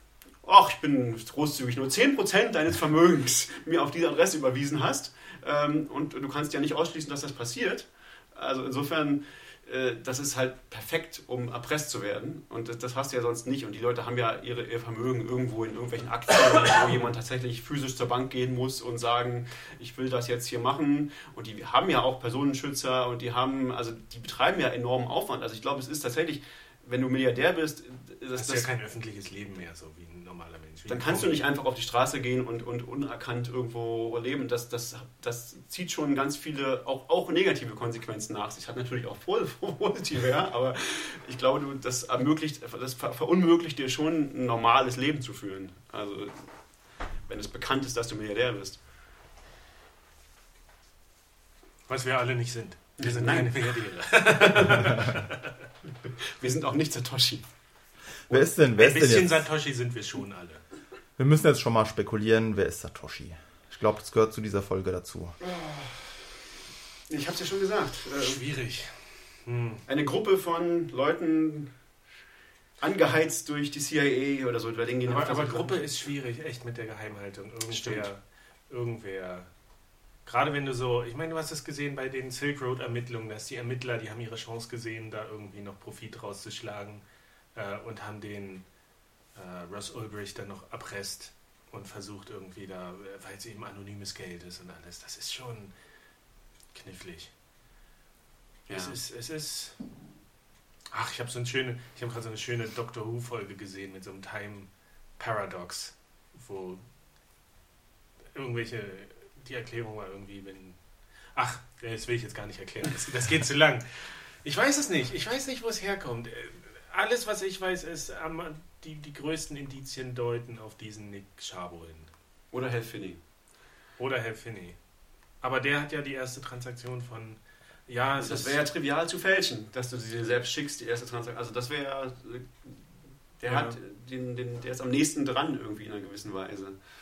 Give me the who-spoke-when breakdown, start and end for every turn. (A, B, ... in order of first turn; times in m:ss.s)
0:00.4-0:28.7 A
0:28.4-0:31.4 B
0:30.9-0:48.8 A
0:51.9-0:55.6 B
0:53.0-0:53.7 A
0:56.4-0:57.4 A
0:58.3-0:59.5 C
0:58.7-1:00.6 B
1:01.2-1:05.4 C
1:05.5-1:06.1 A
1:07.1-1:08.4 A
1:08.2-1:09.8 B
1:09.9-1:11.7 A
1:12.8-1:15.9 A
1:15.1-1:19.5 B
1:17.7-1:18.1 A
1:20.2-1:27.0 B
1:27.5-1:28.6 B
1:29.3-1:35.7 B
1:36.7-1:37.3 B
1:38.7-1:39.0 A
1:38.8-1:39.8 B
1:40.9-1:46.8 B
1:48.3-1:50.8 B
1:51.3-2:02.1 B
2:02.5-2:03.2 A
2:04.0-2:04.8 B
2:05.4-2:08.6 B
2:08.2-2:16.8 A
2:13.5-2:13.8 B